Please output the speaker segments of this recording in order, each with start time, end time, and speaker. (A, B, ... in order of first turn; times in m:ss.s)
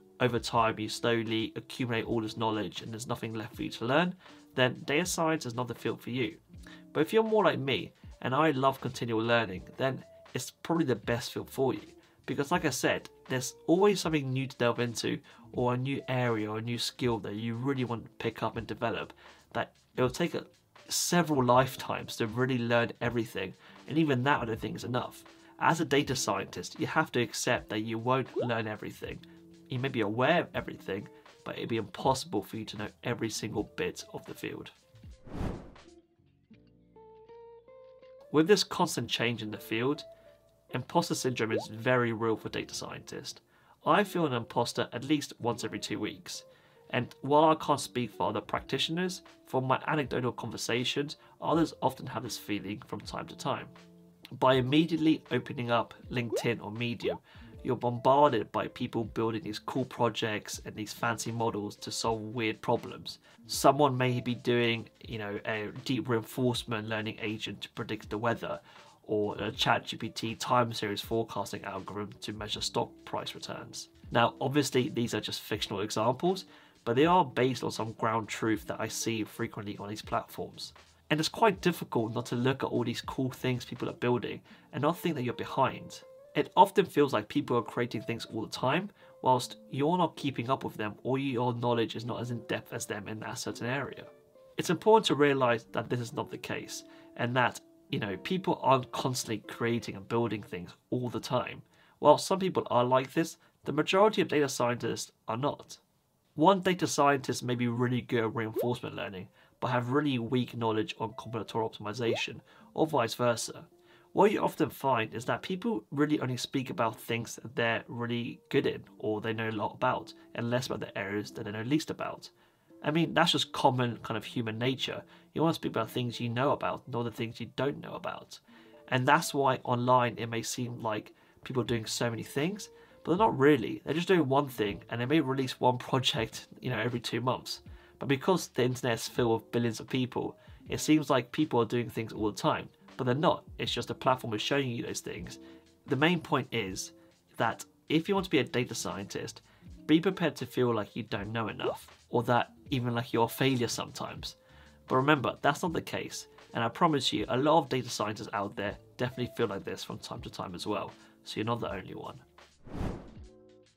0:00.2-0:06.4 A
0:06.9-0:34.7 A
0:38.3-0:40.0 A
0:40.7-0:53.7 A
0:54.4-1:45.8 A
1:46.4-2:42.2 A